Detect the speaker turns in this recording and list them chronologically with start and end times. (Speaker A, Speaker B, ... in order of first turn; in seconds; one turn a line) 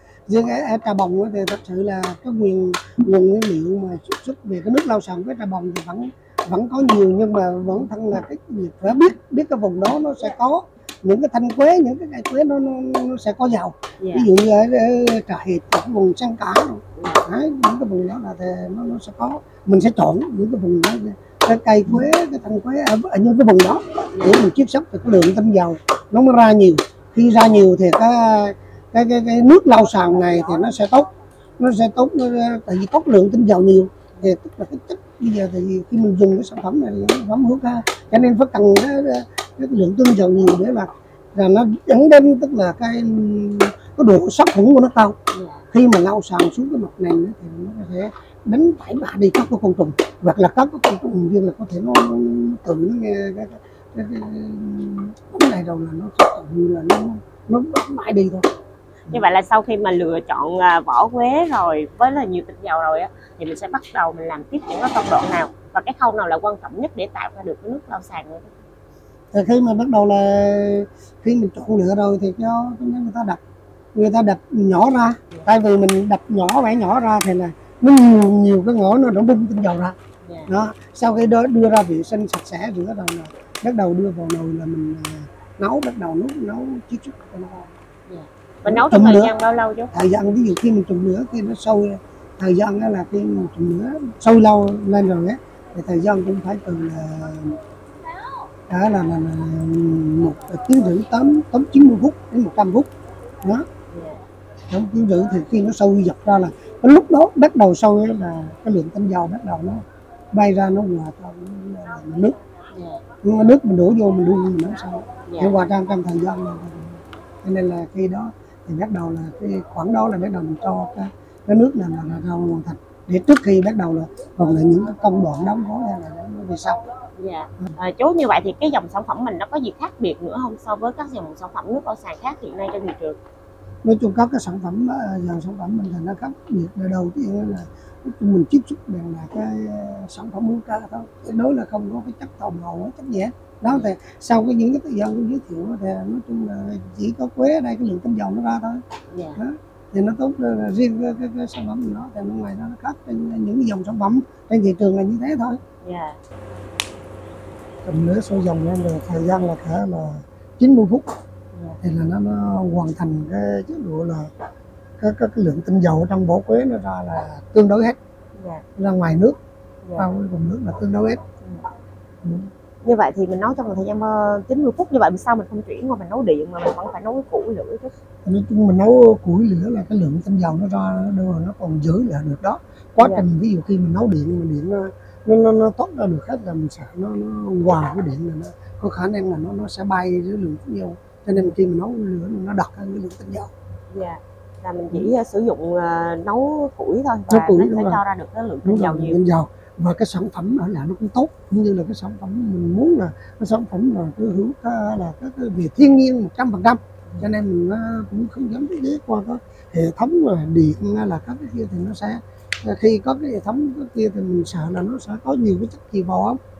Speaker A: 0.3-31.1
Speaker B: 14.0-14.3
Speaker B: 17.0-17.2
Speaker B: 24.1-24.4
Speaker A: 31.6-45.1
Speaker B: 45.3-45.6
Speaker A: 45.7-58.5
Speaker B: 59.1-68.5
Speaker A: 69.3-73.4
Speaker A: 73.9-80.0
Speaker B: 80.2-80.5
Speaker A: 80.5-87.7
Speaker B: 88.1-89.9
Speaker A: 88.7-89.3
Speaker A: 89.9-97.6
Speaker A: 98.7-102.9
Speaker B: 103.9-104.2
Speaker A: 104.7-112.3
Speaker B: 112.7-113.0
Speaker A: 113.2-126.8
Speaker B: 115.3-115.5
Speaker B: 127.2-133.2
Speaker A: 133.8-148.8
Speaker B: 149.1-149.4
Speaker A: 149.4-155.6
Speaker B: 155.8-156.2
Speaker A: 157.8-161.1
Speaker A: 161.8-164.3
Speaker A: 165.0-168.0
Speaker B: 168.4-168.6
Speaker A: 168.8-169.4
Speaker A: 170.0-171.2
Speaker A: 172.2-172.5
Speaker B: 172.8-177.9
Speaker A: 178.2-193.5
Speaker B: 183.0-183.2
Speaker B: 193.9-199.2
Speaker A: 197.3-198.0
Speaker A: 198.6-216.4